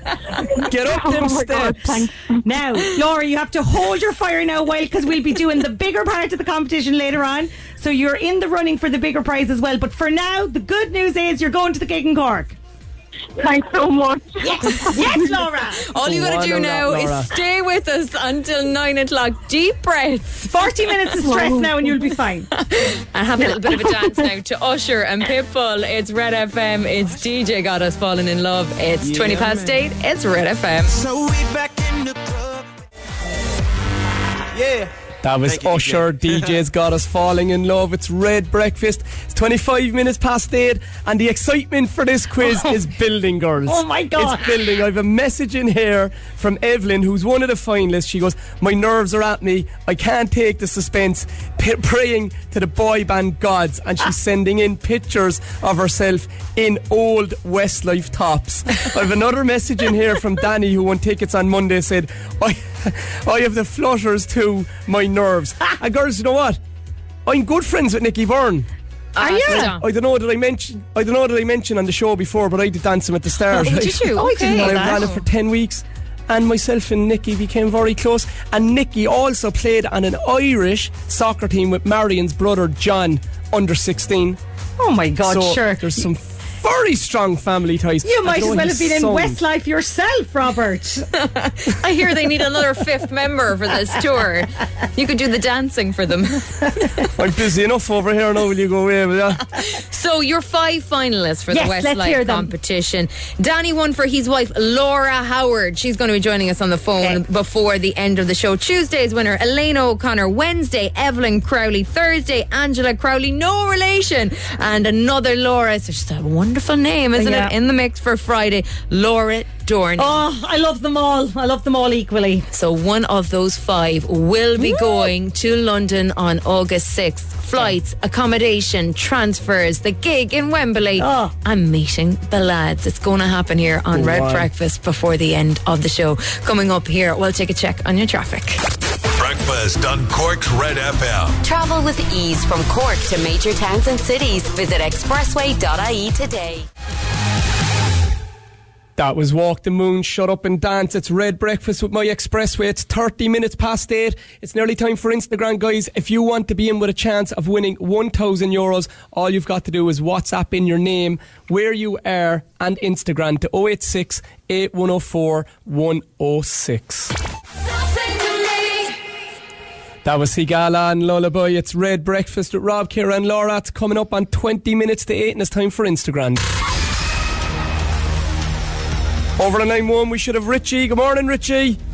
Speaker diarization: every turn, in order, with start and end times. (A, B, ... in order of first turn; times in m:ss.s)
0:00.6-0:02.0 A
0:00.7-0:02.3 B
0:02.4-0:12.6 C
0:13.4-0:15.4 B
0:14.4-0:15.9 C
0:15.9-0:20.5 D
0:16.0-0:17.3 A
0:20.5-0:22.5 C
0:21.3-0:21.9 B
0:22.5-0:30.9 D
0:29.0-0:29.8 E
0:30.9-0:32.7 E
0:34.5-0:34.9 E
0:35.2-1:06.6 A
0:35.4-0:36.6 E
0:42.4-0:42.7 C
0:43.6-0:44.5 C
1:07.2-1:08.7 A
1:09.2-1:09.8 D
1:09.2-1:09.7 C
1:09.5-1:24.4 A
1:13.5-1:15.2 D
1:14.1-1:15.1 C
1:24.8-1:26.0 C
1:25.2-1:29.4 A
1:28.0-1:31.1 C
1:31.2-1:36.9 D
1:37.1-1:39.4 A
1:39.8-2:00.2 D
1:41.5-1:42.5 C
1:57.2-1:57.5 C
2:00.0-2:02.5 C
2:02.5-2:18.6 D
2:04.6-2:05.1 C
2:11.0-2:11.3 C
2:13.9-2:14.5 A
2:19.1-2:21.4 F
2:21.4-2:26.7 G
2:29.0-2:47.1 A
2:50.0-2:56.4 A
2:59.4-3:01.8 A